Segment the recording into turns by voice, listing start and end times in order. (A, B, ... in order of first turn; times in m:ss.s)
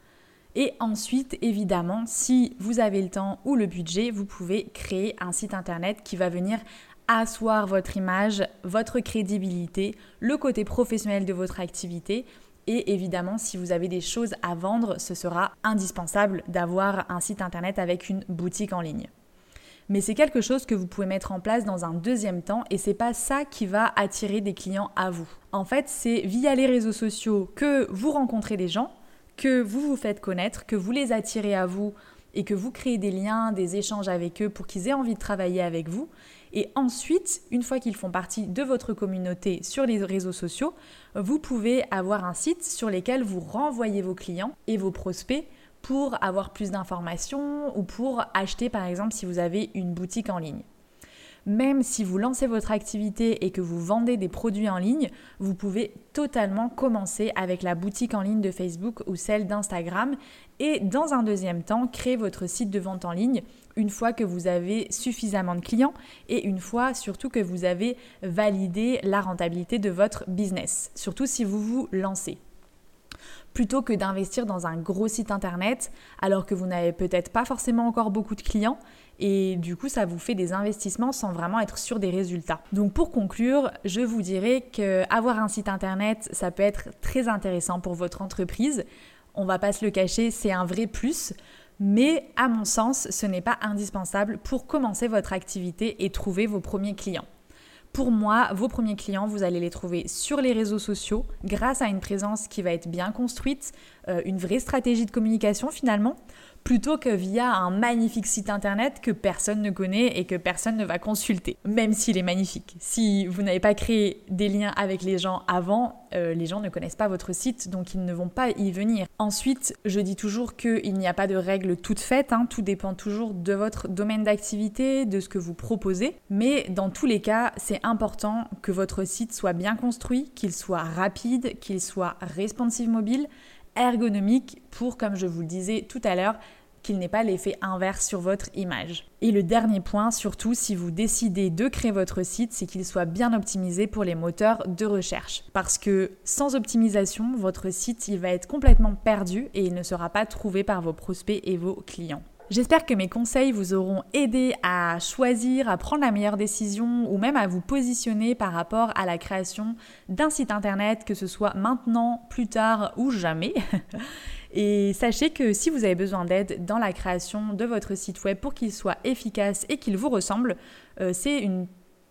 0:00.5-0:19.1 A
0:19.9-0:50.6 A
0:51.4-1:12.4 A
1:13.5-1:37.2 A
1:37.9-2:51.7 A